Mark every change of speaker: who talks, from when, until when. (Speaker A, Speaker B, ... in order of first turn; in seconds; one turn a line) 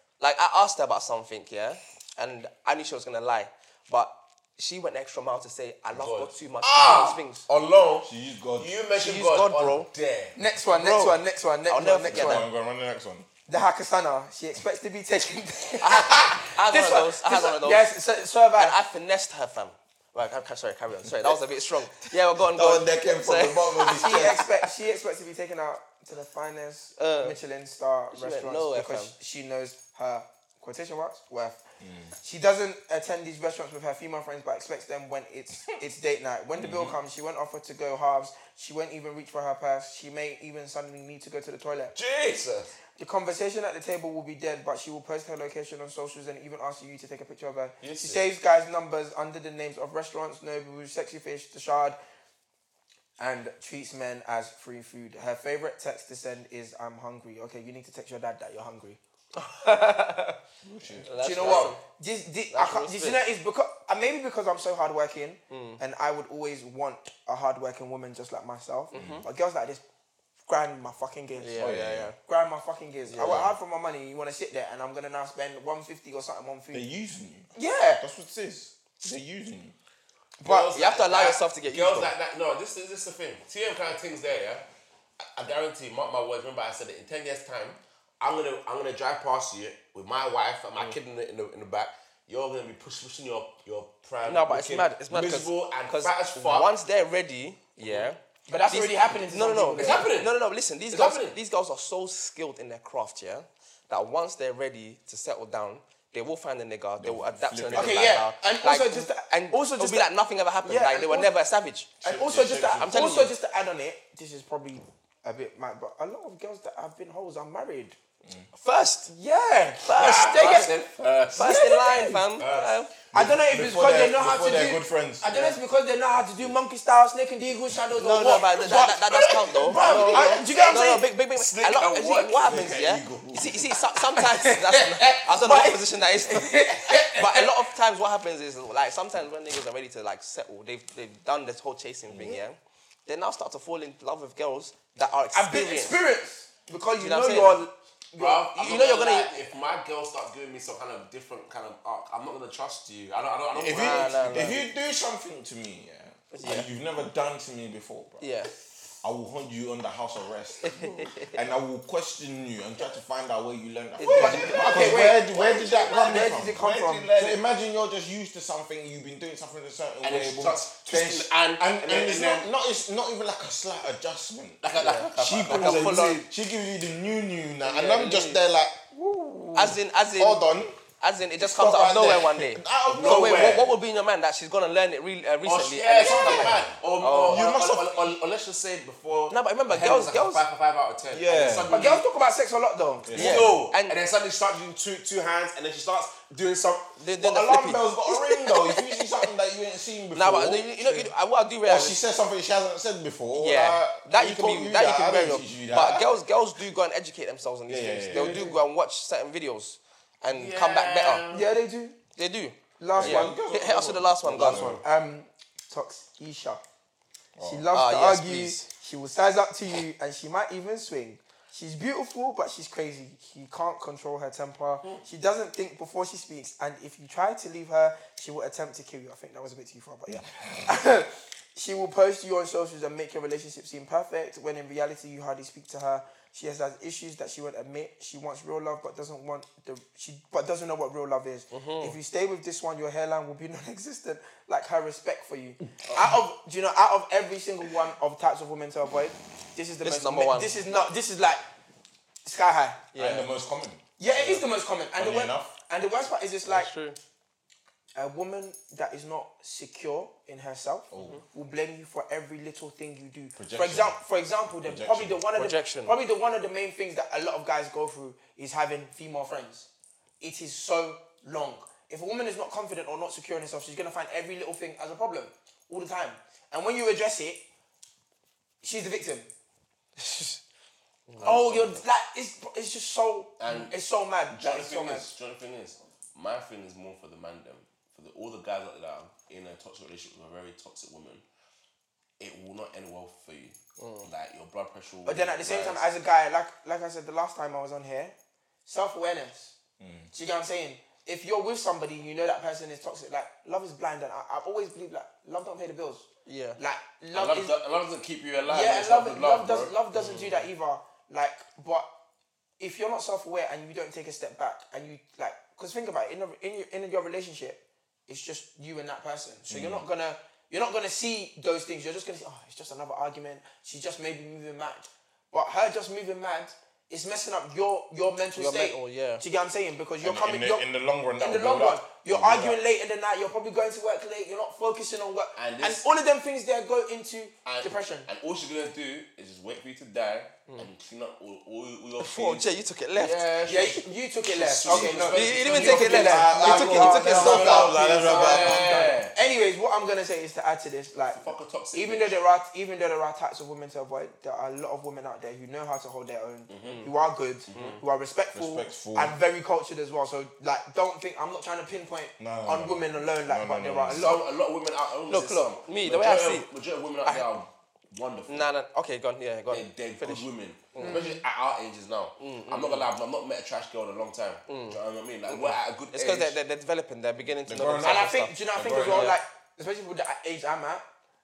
Speaker A: 0.2-7.5
Speaker B: 5.9-10.4
Speaker C: 8.0-8.7
Speaker A: 8.9-9.9
Speaker D: 10.3-12.5
Speaker A: 10.7-12.4
Speaker C: 12.1-13.3
Speaker D: 13.5-18.8
Speaker A: 15.8-17.9
Speaker A: 18.6-24.4
Speaker C: 22.4-24.5
Speaker D: 23.9-31.6
Speaker A: 27.0-27.4
Speaker A: 28.1-29.1
Speaker C: 31.8-32.1
Speaker D: 32.1-41.9
Speaker C: 36.5-37.0
Speaker B: 41.9-42.7
Speaker D: 43.0-52.0
Speaker B: 47.8-48.2
Speaker D: 53.2-59.0
Speaker A: 59.3-60.4
Speaker C: 60.6-61.3
Speaker A: 61.0-61.8
Speaker D: 61.2-69.8
Speaker B: 61.2-61.8
Speaker A: 62.5-63.2
Speaker A: 65.5-65.8
Speaker B: 68.9-69.2
Speaker C: 68.9-69.2
Speaker D: 70.5-71.7
Speaker A: 71.4-72.2
Speaker C: 71.6-72.1
Speaker D: 72.2-76.8
Speaker A: 73.1-73.5
Speaker C: 73.1-73.5
Speaker C: 76.7-79.8
Speaker D: 77.5-78.0
Speaker D: 80.4-80.7
Speaker B: 80.4-84.6
Speaker A: 80.7-82.1
Speaker B: 85.2-96.7
Speaker A: 94.2-111.9
Speaker B: 97.8-98.1
Speaker D: 98.5-100.1
Speaker B: 99.7-100.3
Speaker B: 100.9-101.4
Speaker C: 107.0-108.3
Speaker D: 107.7-110.1
Speaker D: 110.7-111.3
Speaker C: 112.0-113.1
Speaker D: 112.0-118.0
Speaker A: 112.7-113.3
Speaker A: 118.5-119.1
Speaker D: 119.1-120.8
Speaker A: 119.8-120.8
Speaker B: 120.0-122.8
Speaker A: 121.3-122.9
Speaker D: 121.3-122.2
Speaker C: 123.1-125.4
Speaker D: 123.1-131.1
Speaker A: 127.9-146.0
Speaker C: 129.1-130.1
Speaker B: 129.3-130.8
Speaker B: 131.3-132.6
Speaker C: 132.4-133.7
Speaker D: 134.2-137.5
Speaker C: 142.1-142.4
Speaker D: 145.3-149.1
Speaker A: 147.0-147.6
Speaker B: 148.2-154.7
Speaker A: 148.6-149.3
Speaker C: 153.5-158.2
Speaker A: 153.7-154.6
Speaker A: 156.3-156.7
Speaker A: 158.2-158.5
Speaker C: 159.0-174.6
Speaker A: 160.6-161.3
Speaker A: 164.0-165.0
Speaker D: 164.1-165.2
Speaker B: 164.4-166.5
Speaker D: 166.0-167.4
Speaker B: 170.0-172.5
Speaker B: 174.6-176.1
Speaker A: 174.8-176.2
Speaker D: 175.2-176.2
Speaker C: 175.4-180.8
Speaker A: 177.6-178.4
Speaker A: 179.5-180.5
Speaker A: 181.0-187.8
Speaker C: 181.4-183.7
Speaker B: 182.9-183.7
Speaker B: 185.4-192.1
Speaker C: 186.0-186.7
Speaker C: 187.3-187.9
Speaker A: 189.3-190.4
Speaker C: 191.1-191.8
Speaker D: 191.7-193.3
Speaker C: 193.0-193.6
Speaker A: 193.1-194.0
Speaker B: 193.1-197.0
Speaker A: 197.0-199.2
Speaker C: 197.2-201.1
Speaker A: 200.1-202.0
Speaker C: 201.6-206.1
Speaker A: 203.3-211.3
Speaker C: 207.7-208.5
Speaker D: 208.1-208.6
Speaker B: 210.3-211.4
Speaker D: 211.3-212.0
Speaker A: 212.1-214.8
Speaker D: 212.8-213.3
Speaker C: 212.9-214.8
Speaker B: 214.3-214.7
Speaker D: 214.5-216.6
Speaker C: 217.4-217.7
Speaker D: 217.4-251.4
Speaker A: 217.7-218.6
Speaker A: 241.5-242.0
Speaker A: 249.8-250.6
Speaker D: 252.2-252.8
Speaker A: 252.9-253.3
Speaker C: 252.9-255.5
Speaker D: 254.0-256.7
Speaker A: 256.4-257.0
Speaker D: 257.9-269.7
Speaker C: 260.9-261.2
Speaker C: 263.4-264.0
Speaker C: 264.6-265.2
Speaker A: 265.3-265.9
Speaker D: 270.2-277.4
Speaker D: 278.6-279.3
Speaker A: 281.1-281.5
Speaker D: 281.2-285.1
Speaker B: 281.2-281.8
Speaker B: 283.4-283.7
Speaker B: 284.3-291.2
Speaker B: 292.2-295.8
Speaker A: 293.8-294.1
Speaker D: 295.0-298.1
Speaker D: 298.6-299.5
Speaker C: 299.8-300.1
Speaker D: 300.1-306.1
Speaker A: 306.2-306.6
Speaker D: 306.6-307.5
Speaker B: 307.1-309.8
Speaker D: 308.5-311.9
Speaker A: 309.9-310.5
Speaker D: 312.6-338.1
Speaker C: 319.5-319.9
Speaker A: 328.3-329.2
Speaker C: 330.0-332.6
Speaker B: 335.4-335.9
Speaker B: 337.4-346.1
Speaker A: 342.0-343.3
Speaker D: 343.4-351.2
Speaker C: 344.7-348.9
Speaker A: 345.1-347.7
Speaker B: 347.0-349.1
Speaker B: 351.1-352.2
Speaker D: 351.7-364.2
Speaker B: 356.5-356.9
Speaker A: 356.6-356.9
Speaker B: 357.5-357.8
Speaker A: 357.5-357.8
Speaker C: 358.3-359.1
Speaker C: 362.2-364.2
Speaker B: 363.9-368.5
Speaker A: 365.1-366.5
Speaker A: 367.0-367.4
Speaker A: 368.3-371.1
Speaker B: 369.5-376.4
Speaker D: 370.8-371.2
Speaker A: 372.2-372.9
Speaker A: 374.5-379.2
Speaker C: 377.5-379.2
Speaker D: 377.8-380.8